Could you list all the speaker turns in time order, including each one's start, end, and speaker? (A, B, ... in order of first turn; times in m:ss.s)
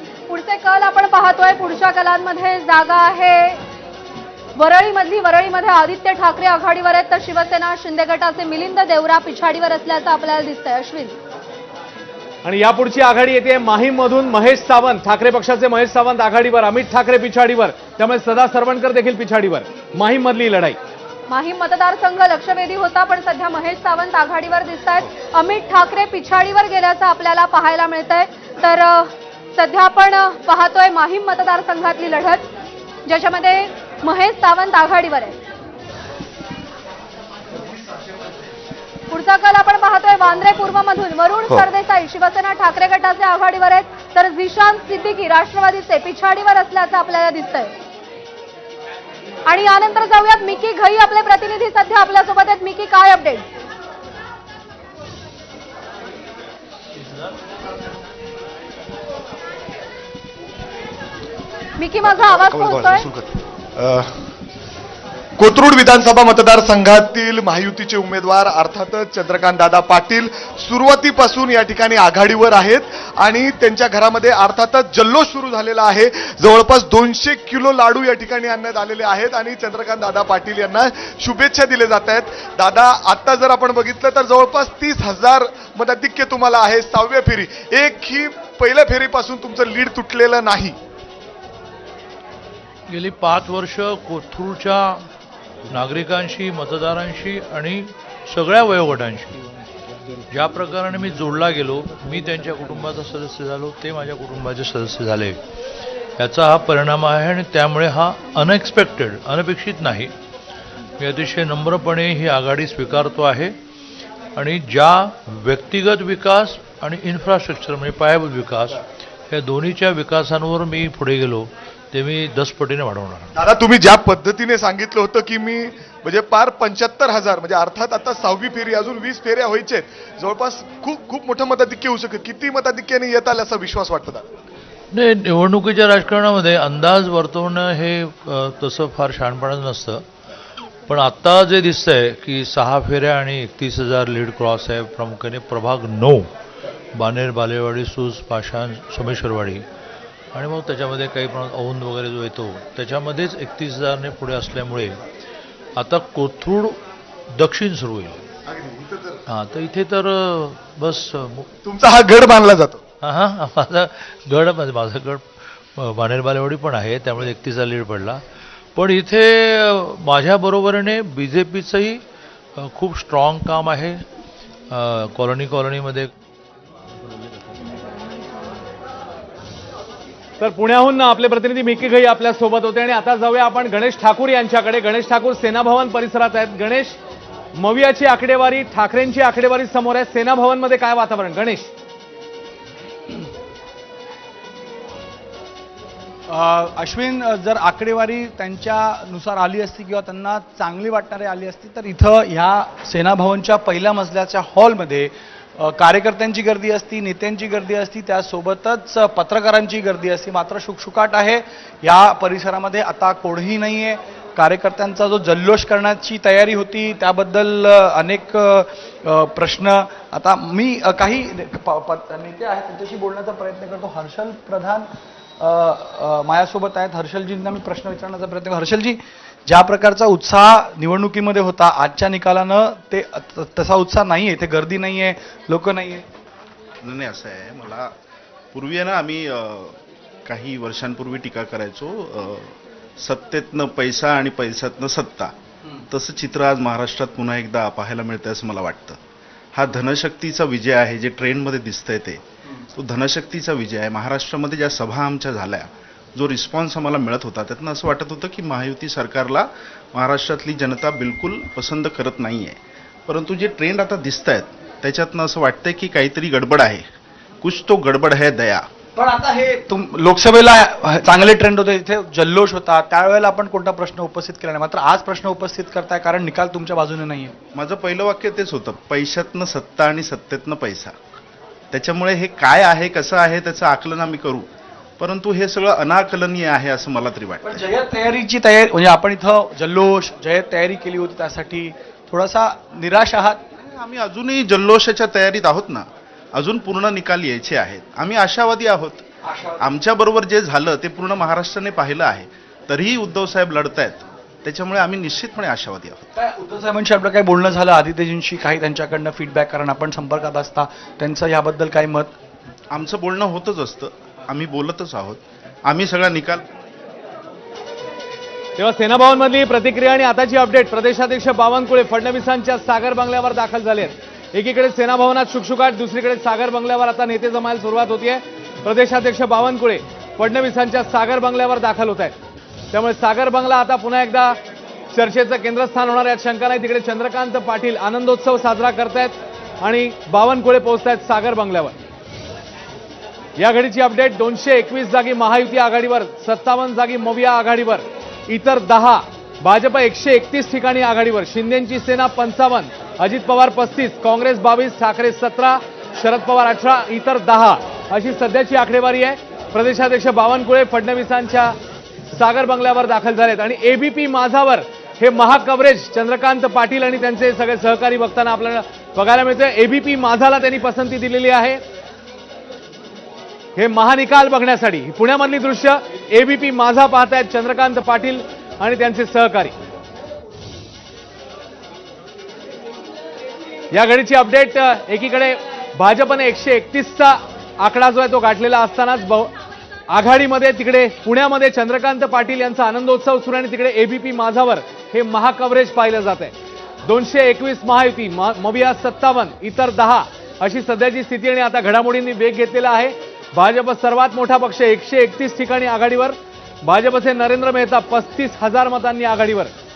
0:00.3-0:03.6 A
0:04.6-0:11.1 A
0:12.4-0:20.8 B
0:21.3-0:32.4 A
0:33.0-0:35.3 A
0:39.1-0:47.7 A
0:49.4-0:53.4 A
1:01.8-1:03.1 A
1:02.1-1:04.2 C
1:05.4-1:30.8 C
1:32.9-1:35.1 D
1:35.7-1:39.3 D
1:40.3-1:45.4 D
1:46.2-1:50.1 D
1:51.0-1:53.5 D
1:54.4-2:03.3 D
2:03.4-2:14.2 C
2:14.9-2:20.0 D
2:20.9-2:26.3 D
2:26.9-2:29.6 D
2:30.3-2:35.0 D
2:35.8-2:36.8 D
2:37.3-2:38.2 D
2:38.5-2:39.2 C
2:39.3-2:41.5 D
2:41.6-2:42.8 C
2:43.0-2:45.2 D
2:45.8-2:48.2 D
2:48.8-2:52.0 D
2:52.6-2:54.0 D
2:54.7-2:56.1 D
3:00.4-3:07.0 B
3:07.6-3:11.7 B
3:16.3-3:44.8 E
3:45.4-3:56.0 E
3:56.8-3:57.9 F
3:58.5-4:05.3 F
4:05.9-4:09.0 F
4:09.5-4:12.2 F
4:12.7-4:26.8 F
4:27.4-4:28.6 F
4:29.0-4:37.3 E
4:37.5-4:40.9 F
4:41.7-4:44.5 F
4:45.0-4:47.6 F
4:47.4-4:53.4 E
4:53.5-4:59.0 F
4:59.2-4:59.6 E
4:59.6-5:06.0 F
5:06.2-5:12.1 E
5:12.7-5:16.4 F
5:18.6-5:32.1 B
5:32.7-5:34.4 B
5:34.9-5:41.8 B
5:43.4-6:01.5 B
6:02.1-6:11.6 B
6:13.6-6:19.5 B
6:23.7-6:29.3 B
6:29.9-6:36.3 B
6:36.8-6:49.5 B